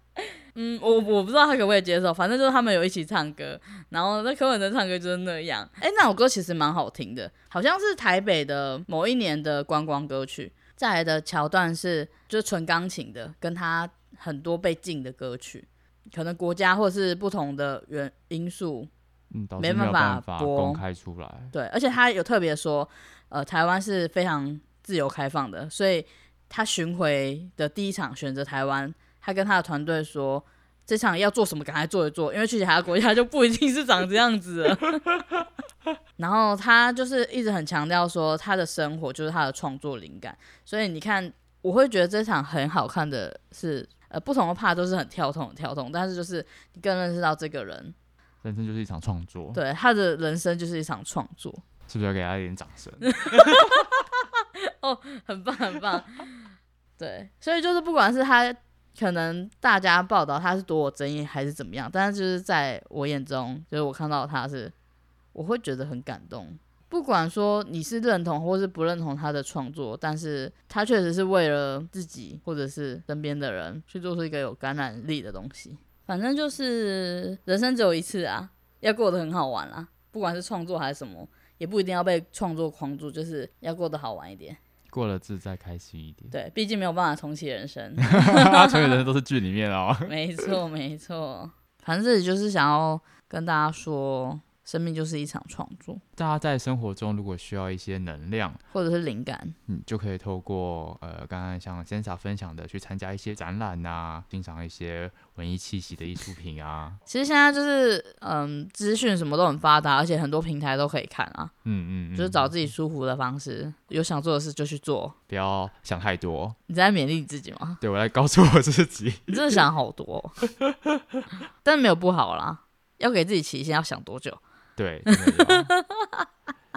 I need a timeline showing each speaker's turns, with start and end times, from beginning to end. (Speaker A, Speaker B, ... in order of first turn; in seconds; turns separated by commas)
Speaker A: 0.6-18.9, Speaker B: 19.3-21.5, Speaker A: 19.6-20.8, Speaker A: 21.5-35.2, Speaker A: 36.2-48.0, Speaker B: 48.4-49.6, Speaker A: 49.5-51.6, Speaker B: 51.9-53.9, Speaker A: 53.0-64.7, Speaker A: 65.3-84.6, Speaker B: 84.9-86.3, Speaker A: 86.3-89.0, Speaker B: 88.0-90.2, Speaker A: 90.0-96.0, Speaker B: 96.2-98.6, Speaker A: 98.7-99.6, Speaker B: 99.7-107.0, Speaker A: 107.1-111.5, Speaker B: 111.7-112.5, Speaker A: 112.2-115.2, Speaker B: 115.3-116.6, Speaker A: 116.7-117.8, Speaker B: 117.8-119.6, Speaker A: 119.3-120.4, Speaker B: 120.6-121.0, Speaker A: 121.6-124.4, Speaker B: 124.8-125.7, Speaker A: 125.1-126.2